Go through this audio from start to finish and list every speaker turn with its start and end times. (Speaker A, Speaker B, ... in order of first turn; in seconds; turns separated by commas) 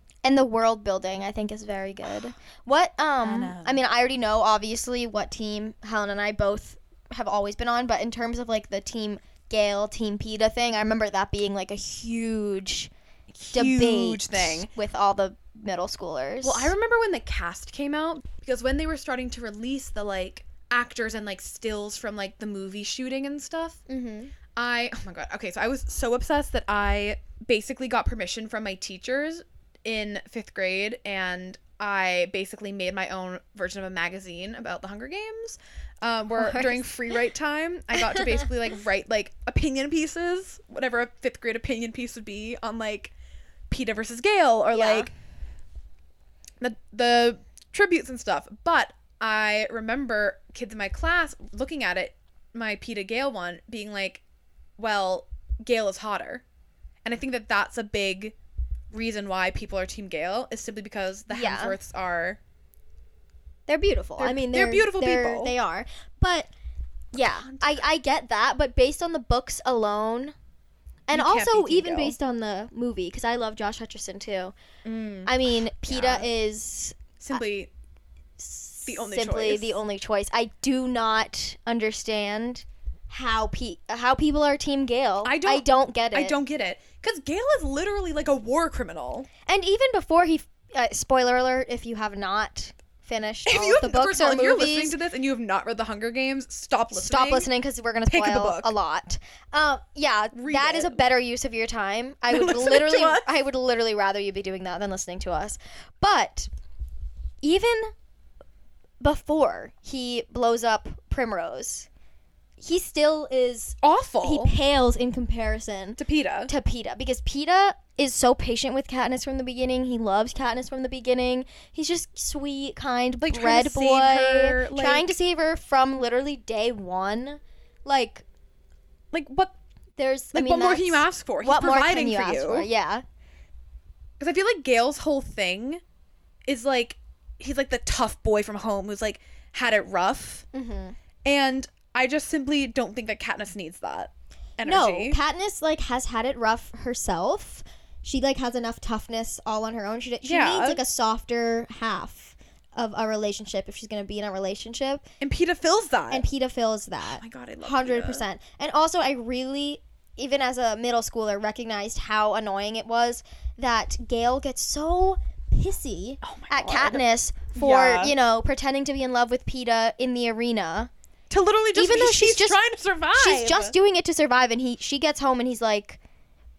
Speaker A: 0.2-12.9, Speaker B: 3.2-3.8, Speaker B: 13.3-14.7, Speaker A: 13.5-16.7, Speaker B: 16.4-23.8, Speaker A: 23.9-24.3, Speaker B: 24.6-43.1, Speaker A: 36.4-36.9, Speaker B: 43.7-45.1, Speaker A: 44.7-45.1, Speaker B: 46.6-54.2, Speaker B: 54.8-56.4, Speaker B: 57.0-58.4, Speaker B: 58.9-62.4, Speaker A: 61.3-61.8, Speaker A: 63.7-66.5, Speaker B: 64.2-65.5, Speaker A: 67.1-70.3, Speaker B: 67.2-67.9, Speaker A: 71.1-74.5, Speaker B: 71.1-72.2, Speaker B: 74.8-76.3, Speaker A: 75.3-77.4, Speaker B: 77.2-77.7, Speaker A: 78.4-86.4, Speaker B: 78.9-79.8, Speaker B: 85.2-89.3, Speaker A: 89.5-95.0, Speaker B: 93.5-97.5, Speaker A: 96.9-106.5, Speaker B: 98.1-98.7, Speaker B: 100.3-101.1, Speaker B: 102.3-103.4, Speaker A: 107.4-107.9, Speaker A: 109.0-111.9, Speaker A: 112.6-128.2, Speaker B: 113.8-114.5, Speaker B: 116.0-116.5, Speaker B: 123.2-125.2, Speaker B: 129.1-129.5, Speaker A: 130.0-133.0, Speaker B: 130.3-132.7, Speaker B: 134.2-135.8, Speaker B: 136.5-140.5, Speaker A: 140.5-140.9, Speaker B: 141.2-145.2, Speaker A: 144.6-155.0, Speaker B: 150.2-150.8, Speaker B: 155.2-156.3, Speaker A: 156.1-170.9, Speaker B: 157.0-158.3, Speaker B: 166.2-167.0, Speaker B: 167.6-168.2, Speaker B: 171.3-173.7, Speaker A: 171.7-172.6, Speaker A: 173.1-176.0